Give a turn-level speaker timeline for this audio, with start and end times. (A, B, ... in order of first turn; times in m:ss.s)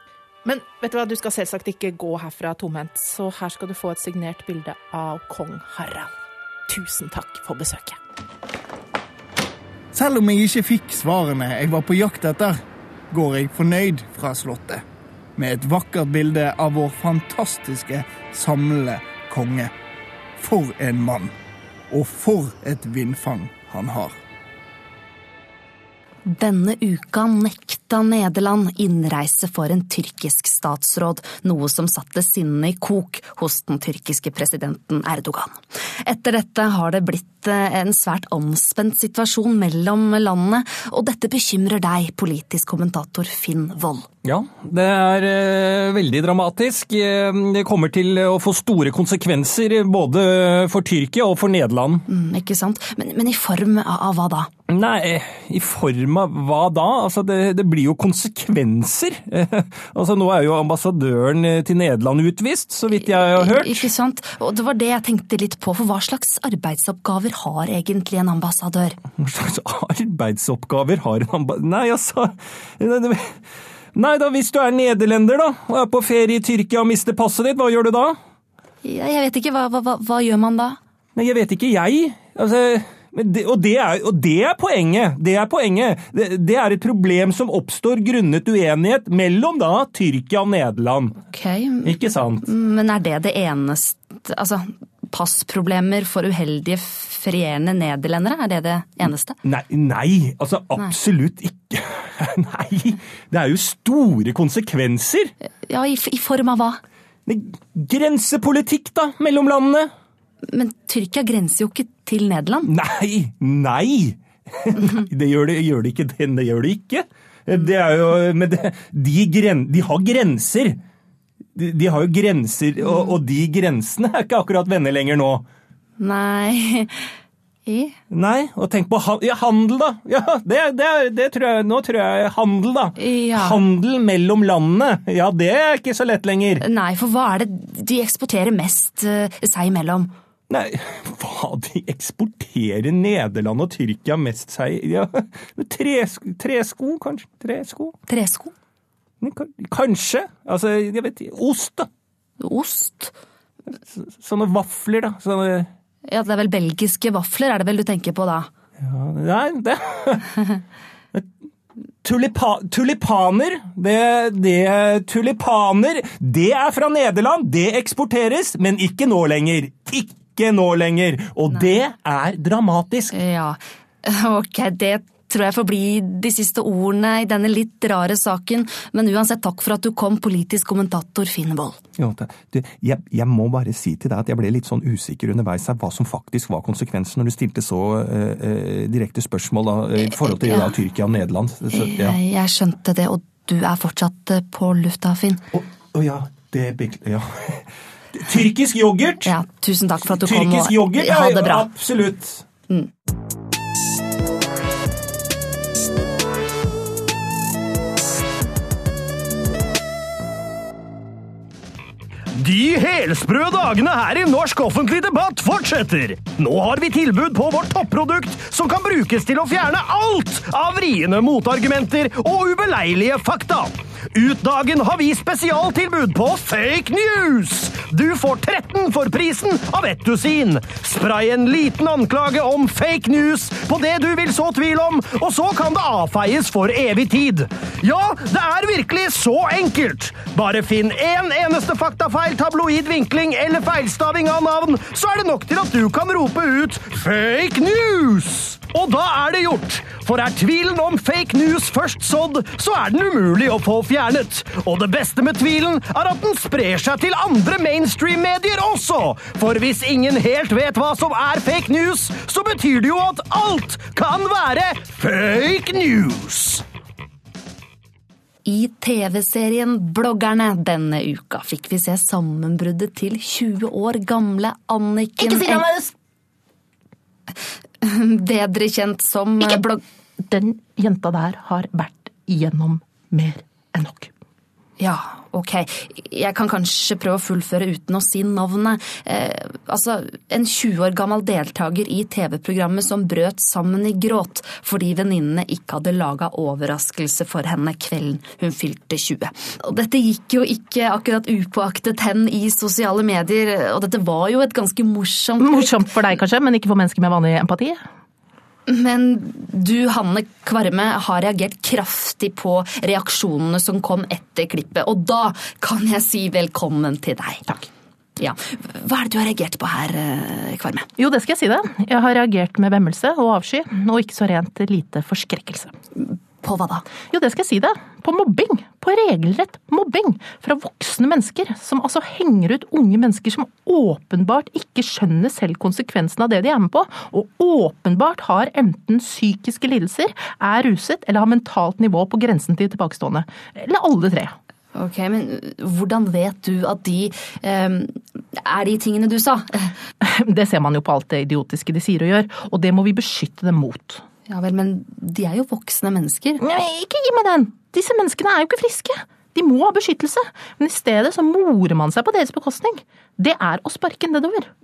0:00.4-0:06.2 A
0:06.7-0:08.0 A
0:09.9-0:14.8 B
0:15.4-0:19.7 B
0:20.4-0:21.4 B
0:21.9-0:24.2 B
0:26.2-0:44.1 C
0:44.2-0:52.0 D
0:52.1-0:54.5 C
0:54.7-1:03.9 D
1:03.0-1:09.0 C
1:09.2-1:13.4 D
1:14.0-1:18.2 D
1:18.8-1:20.8 C
1:21.2-1:31.2 D
1:31.3-1:39.4 C
1:31.8-1:32.5 D
1:39.4-1:45.3 D
1:45.7-1:46.8 C
1:47.3-1:49.9 D
1:50.5-1:52.7 C
1:52.7-2:00.8 D
2:01.6-2:05.4 D
2:06.0-2:07.1 C
2:07.7-2:08.0 C
2:08.1-2:16.6 D
2:13.0-2:13.6 C
2:16.6-2:20.1 C
2:20.5-2:28.0 D
2:28.1-2:28.5 C
2:29.2-2:31.9 D
2:32.4-2:33.1 C
2:33.9-2:35.7 D
2:36.1-2:38.5 C
2:38.8-2:40.3 D
2:42.0-2:53.1 D
2:53.1-3:01.8 C
3:02.0-3:12.2 D
3:10.3-3:10.8 C
3:11.7-3:15.4 C
3:15.5-3:17.6 D
3:18.2-3:19.3 D
3:19.2-3:21.7 C
3:20.2-3:22.4 D
3:32.3-4:26.6 E
4:28.4-4:35.7 C
4:35.2-4:35.9 A
4:37.8-4:39.8 C
4:40.2-4:44.1 A
4:44.8-5:05.8 C
5:05.4-5:07.8 A
5:08.7-5:17.4 C
5:18.2-5:20.9 C
5:21.0-5:25.7 A
5:26.0-5:26.9 C
5:27.1-5:44.4 A
5:44.8-5:49.7 C
5:50.0-5:54.0 A
5:54.3-5:56.4 C
5:56.4-6:04.5 A